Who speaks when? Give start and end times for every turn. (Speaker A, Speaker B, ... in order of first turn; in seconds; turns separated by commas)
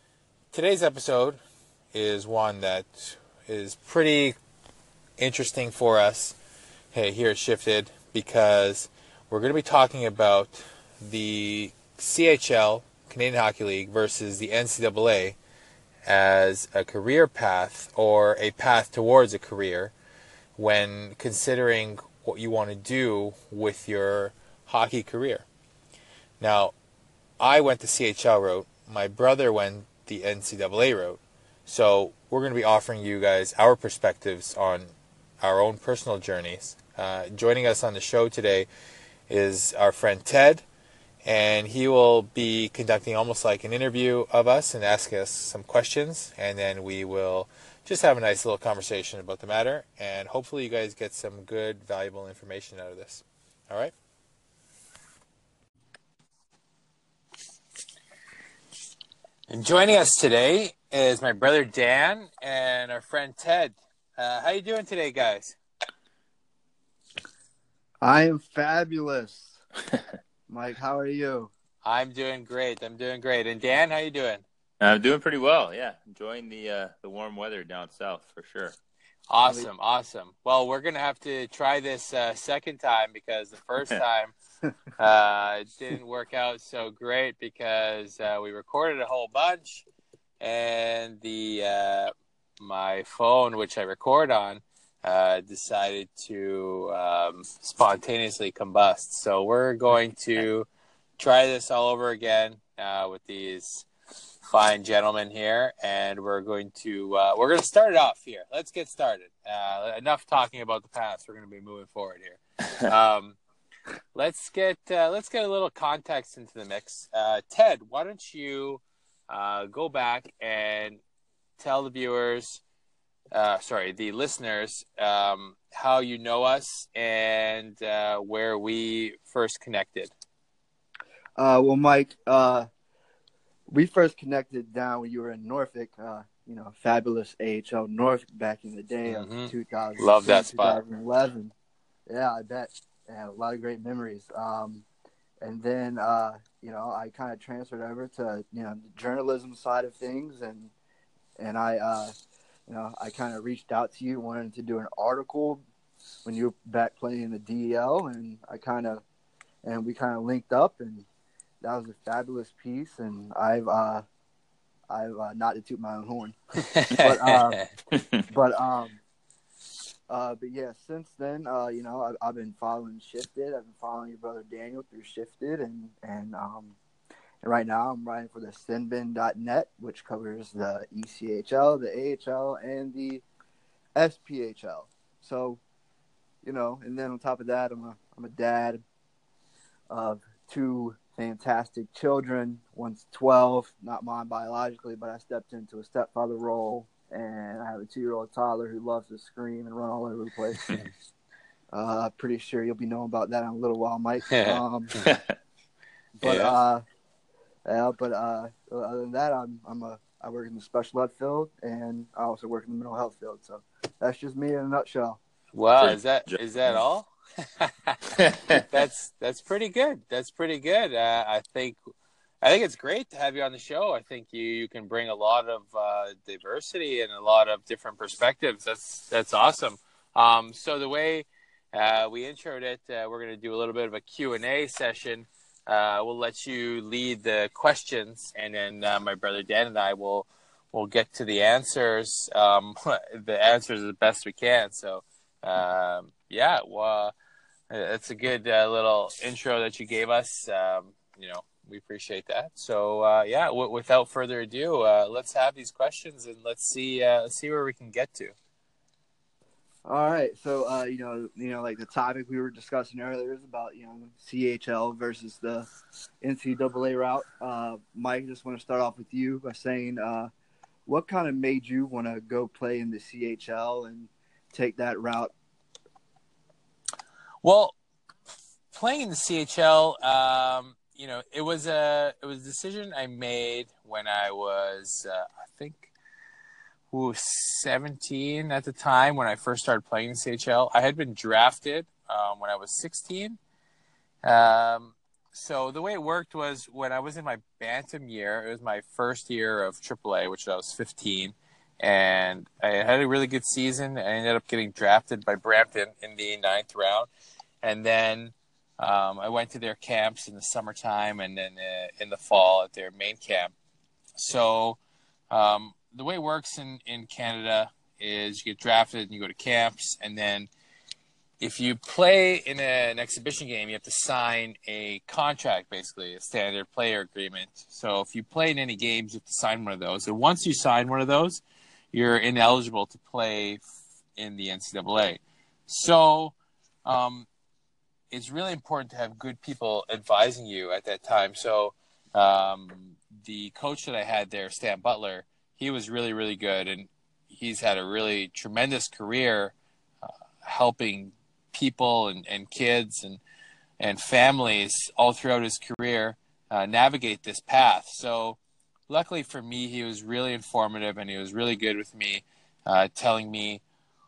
Speaker A: 0.5-1.4, Speaker A: 1.9-4.3, Speaker A: 5.2-6.4, Speaker A: 6.9-15.4, Speaker A: 16.1-19.9, Speaker A: 20.6-25.4, Speaker A: 26.4-26.7, Speaker A: 27.4-38.7, Speaker A: 39.3-40.6, Speaker A: 41.2-53.9, Speaker A: 59.5-65.6, Speaker B: 68.0-69.6, Speaker B: 70.5-71.5, Speaker A: 71.8-74.4, Speaker C: 74.8-78.8, Speaker A: 79.3-84.3, Speaker A: 85.0-89.8, Speaker A: 90.4-103.9, Speaker A: 104.4-113.4, Speaker A: 114.1-121.0, Speaker A: 121.6-122.6, Speaker A: 123.3-130.1, Speaker B: 131.4-132.7, Speaker B: 133.7-141.5, Speaker A: 139.1-140.8, Speaker B: 142.1-144.8, Speaker B: 145.4-150.7, Speaker B: 151.4-152.1, Speaker B: 152.7-155.6, Speaker B: 156.2-159.0, Speaker B: 159.6-161.1, Speaker B: 161.6-164.0, Speaker B: 164.9-166.4, Speaker A: 166.7-167.7, Speaker B: 167.0-167.6, Speaker C: 167.9-168.2, Speaker B: 168.3-169.0, Speaker B: 170.1-176.8, Speaker B: 177.4-183.2, Speaker B: 183.9-185.6, Speaker B: 186.4-188.8, Speaker B: 189.9-200.6, Speaker B: 201.7-204.9, Speaker A: 204.3-205.0, Speaker C: 205.0-205.3, Speaker B: 206.2-206.8, Speaker A: 206.2-206.6, Speaker B: 207.7-215.2, Speaker A: 215.5-221.8, Speaker C: 215.8-216.8, Speaker A: 222.4-247.1, Speaker A: 247.7-258.3, Speaker B: 259.8-265.7, Speaker B: 266.2-270.3, Speaker B: 270.9-275.3, Speaker A: 277.4-277.7, Speaker A: 278.7-285.9, Speaker A: 286.9-293.4, Speaker A: 294.2-307.1, Speaker A: 307.6-313.5, Speaker A: 314.1-314.8, Speaker A: 315.3-320.5, Speaker A: 321.4-331.4, Speaker A: 331.9-333.6, Speaker A: 334.2-337.3, Speaker A: 338.1-349.5, Speaker A: 350.4-353.2, Speaker A: 353.8-358.4, Speaker A: 358.9-363.6